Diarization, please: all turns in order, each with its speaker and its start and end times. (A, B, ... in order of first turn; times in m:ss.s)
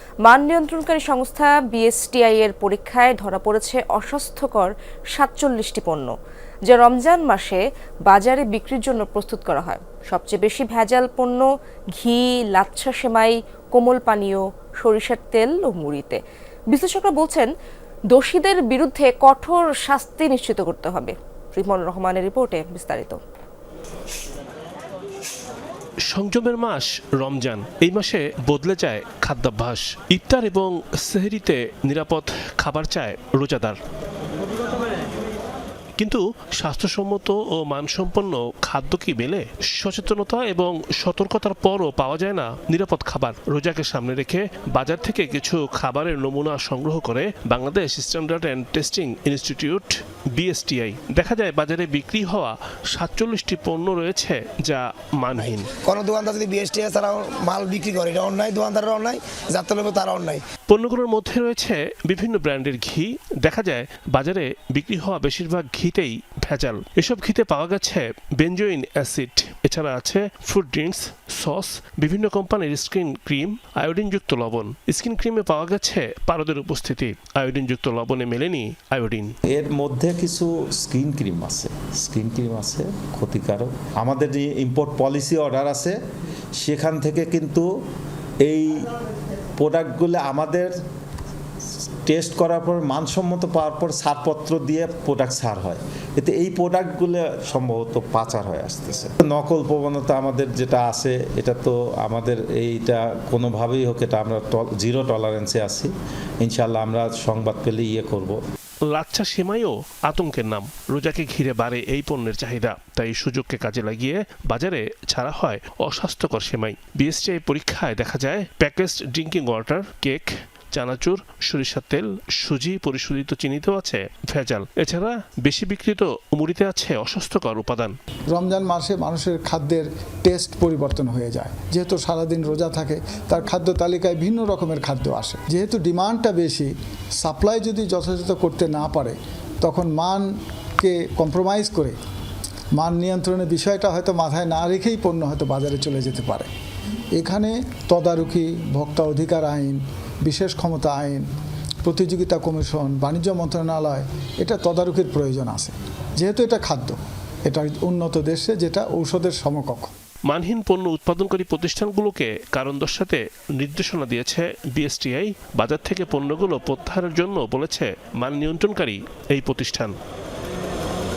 0:00.2-0:06.1 A
0:06.7-0:16.2 A
0:16.7-0:17.5 A
0:18.1-0:23.2 A
0:26.1-0:33.8 B
0:36.0-0:55.7 B
0:55.4-1:00.4 C
1:00.7-1:19.3 B
1:19.5-1:26.0 D
1:26.6-1:27.7 D
1:28.4-1:28.9 D
1:29.6-1:30.7 D
1:32.0-1:48.4 D
1:48.9-2:07.9 B
2:08.3-2:20.3 E
2:20.8-2:22.0 E
2:22.8-2:26.5 E
2:27.2-2:31.2 E
2:31.8-2:39.9 E
2:40.3-2:49.9 B